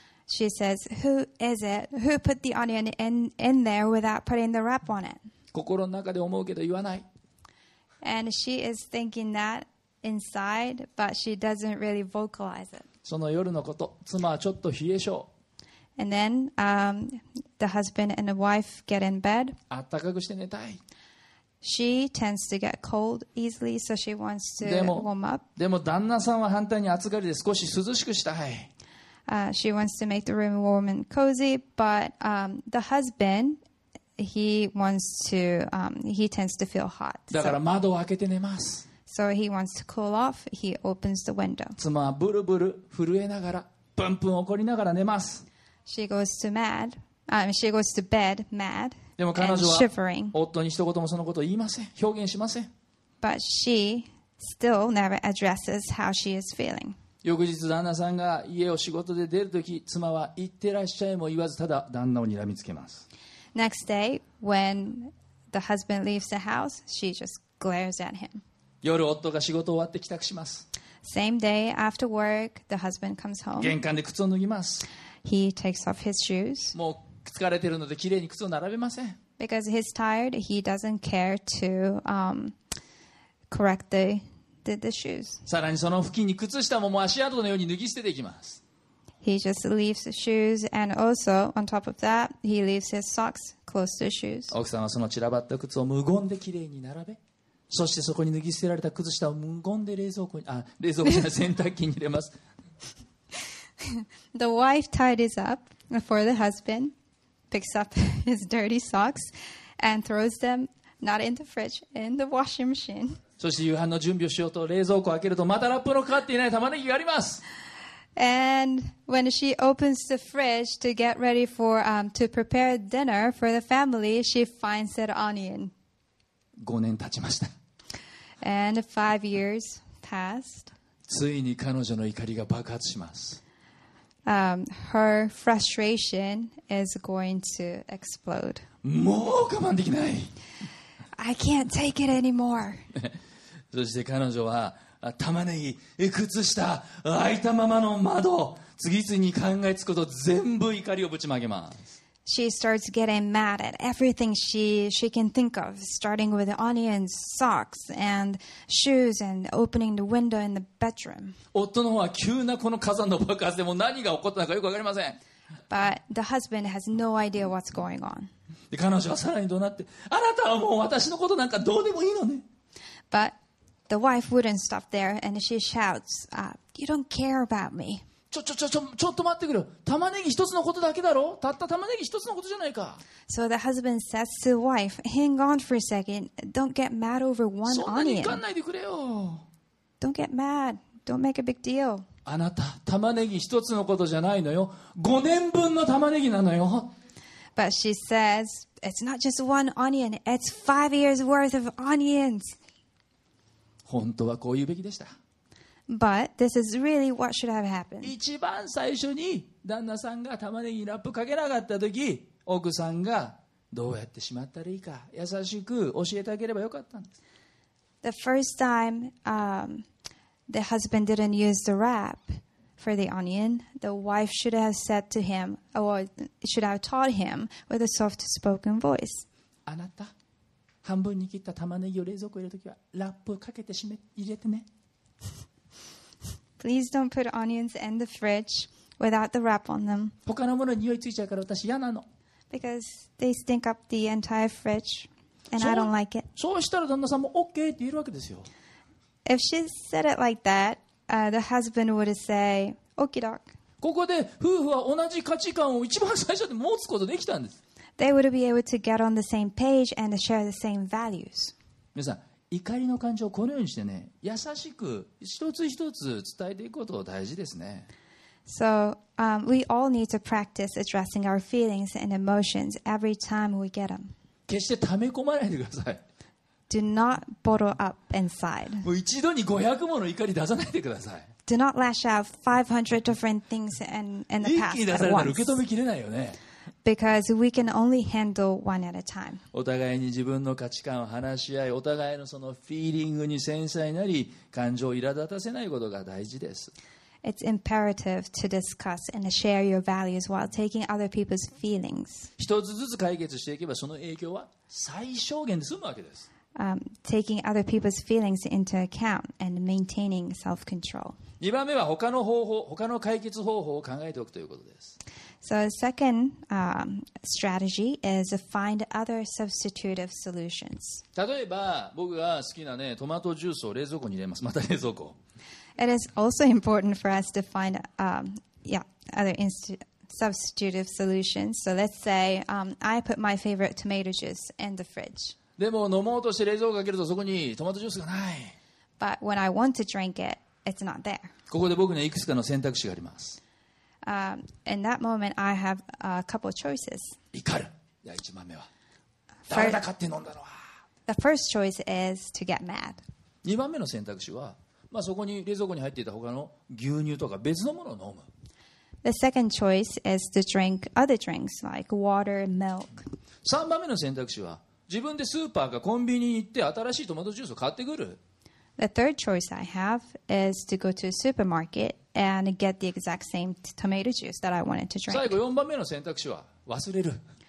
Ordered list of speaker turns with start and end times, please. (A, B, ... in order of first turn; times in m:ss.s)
0:00.3-0:05.2 A
0:05.5-0:07.0 B
0:08.0-0:12.8 A
0:13.0-0:15.3 B
0:16.0-0:19.6 A
0:19.7-0:20.8 B
0:21.6-0:25.4 A
0:24.6-0:28.7 B
0:29.3-0:33.6 A
0:34.2-0:37.6 A
0:37.3-0:38.8 B
0:39.1-0:41.8 A
0:41.8-0:45.4 B
0:45.9-0:50.3 A
0:49.2-0:52.7 B
0:53.2-0:57.0 A
0:57.2-1:03.0 B
1:03.5-1:08.4 A
1:08.8-1:10.6 B
1:11.0-1:13.7 A
1:13.6-1:14.8 B
1:15.2-1:16.7 A
1:16.7-1:19.2 B
1:19.4-1:22.6 A
1:23.5-1:25.4 A
1:25.5-1:28.6 B
1:29.2-1:34.5 A
1:34.5-1:42.3 B
1:43.8-1:46.9 A
1:47.5-1:53.2 A
1:53.4-1:57.4 B
1:58.2-2:05.7 A
2:06.6-2:07.5 B
2:08.4-2:10.7 A
2:11.1-2:13.4 B
2:14.2-2:18.6 A
2:18.8-2:20.3 B
2:21.2-2:22.8 A
2:23.7-2:31.9 B
2:32.2-2:41.4 A
2:41.5-2:45.2 B
2:45.7-2:48.3 A
2:48.7-2:52.4 B
2:53.9-2:58.0 A
2:58.3-3:03.0 B
3:03.3-3:08.4 A
3:07.6-3:09.4 B
3:10.0-3:12.0 A
3:12.2-3:16.9 B
3:17.6-3:22.6 A
3:23.9-3:25.1 B
3:25.9-3:28.1 A
3:28.0-3:37.1 B
3:38.0-3:39.8 A
3:40.5-3:49.2 A
3:49.7-3:50.1 B
3:50.8-3:54.7 B
3:56.6-4:00.1 A
4:00.2-4:02.0 B
4:02.5-4:06.3 A
4:05.6-4:08.5 B
4:09.2-4:13.4 A
4:13.8-4:17.6 B
4:18.0-4:21.5 A
4:21.9-4:27.9 B
4:28.4-4:34.1 A
4:34.5-4:36.0 B
4:36.7-4:38.9 A
4:38.8-4:41.2 B
4:41.4-4:45.6 A
4:44.4-4:46.4 B
4:46.8-4:49.4 A
4:49.5-4:56.7 B
4:57.2-5:02.3 A
5:02.4-5:06.2 B
5:06.6-5:11.2 A
5:11.4-5:14.9 B
5:15.4-5:21.0 A
5:21.2-5:25.2 B
5:25.8-5:35.4 A
5:35.6-5:38.5 B
5:39.0-5:41.3 A
5:41.5-5:43.4 B
5:44.0-5:47.2 A
5:47.3-5:48.7 B
5:49.5-5:49.8 A
5:49.5-5:50.6 B
5:51.1-5:53.0 A
5:53.4-5:58.3 B
5:59.0-6:03.0 A
6:03.4-6:08.2 B
6:08.8-6:15.3 A
6:15.1-6:17.2 B